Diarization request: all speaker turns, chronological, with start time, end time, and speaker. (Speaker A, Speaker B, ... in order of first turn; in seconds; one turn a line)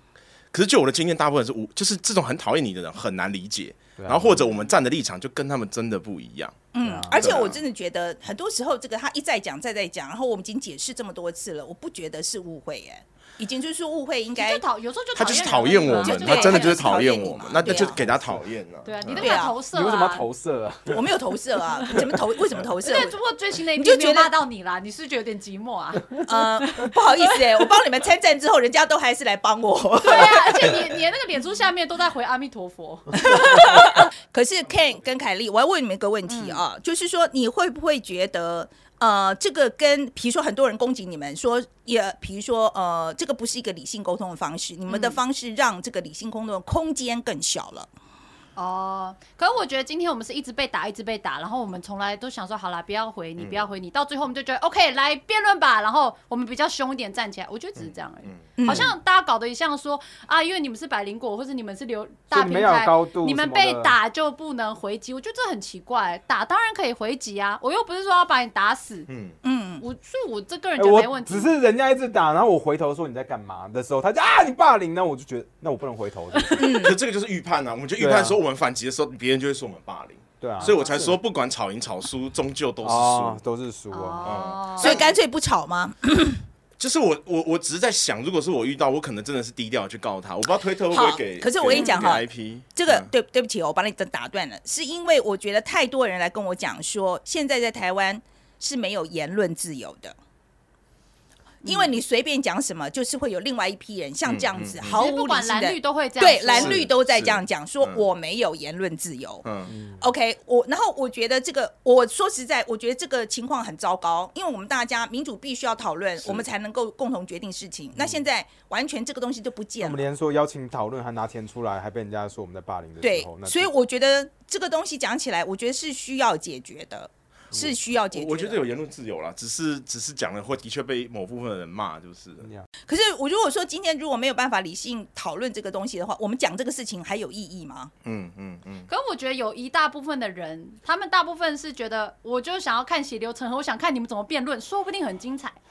Speaker A: 0.5-6.6
Speaker B: 4.0-4.4
Speaker C: 6.7-14.6
Speaker B: 6.8-7.5
Speaker A: 7.1-7.6
Speaker D: 14.3-17.8
Speaker A: 15.1-19.2
Speaker C: 15.9-18.0
Speaker B: 17.8-18.4
Speaker D: 18.8-20.2
Speaker C: 19.2-19.5
Speaker B: 19.2-21.1
Speaker C: 20.9-23.1
Speaker B: 21.9-22.2
Speaker D: 22.8-27.7
Speaker C: 23.8-24.3
Speaker C: 26.2-30.8
Speaker D: 30.0-34.0
Speaker C: 33.2-47.9
Speaker D: 36.3-36.6
Speaker D: 44.9-45.2
Speaker D: 48.5-69.1
Speaker C: 58.6-58.9
Speaker B: 62.3-63.9
Speaker A: 69.1-69.3
Speaker C: 69.4-69.8
Speaker D: 69.8-71.5
Speaker B: 70.8-76.8
Speaker D: 76.3-76.8
Speaker C: 76.5-77.0
Speaker A: 76.8-83.4
Speaker B: 78.0-78.4
Speaker B: 80.4-81.2
Speaker B: 82.8-84.5
Speaker D: 83.9-85.1
Speaker A: 84.2-84.9
Speaker C: 84.8-86.4
Speaker A: 86.8-93.1
Speaker C: 90.9-100.2
Speaker D: 91.7-92.1
Speaker D: 101.6-102.0
Speaker C: 101.6-109.4
Speaker A: 104.2-105.0
Speaker D: 104.9-106.8
Speaker A: 106.5-108.0
Speaker A: 109.4-109.7
Speaker B: 109.7-110.0
Speaker C: 110.0-120.0
Speaker A: 116.2-116.4
Speaker B: 119.8-123.7
Speaker C: 123.0-128.6
Speaker A: 128.1-132.5
Speaker C: 132.9-137.9
Speaker A: 138.0-138.9
Speaker D: 138.9-145.6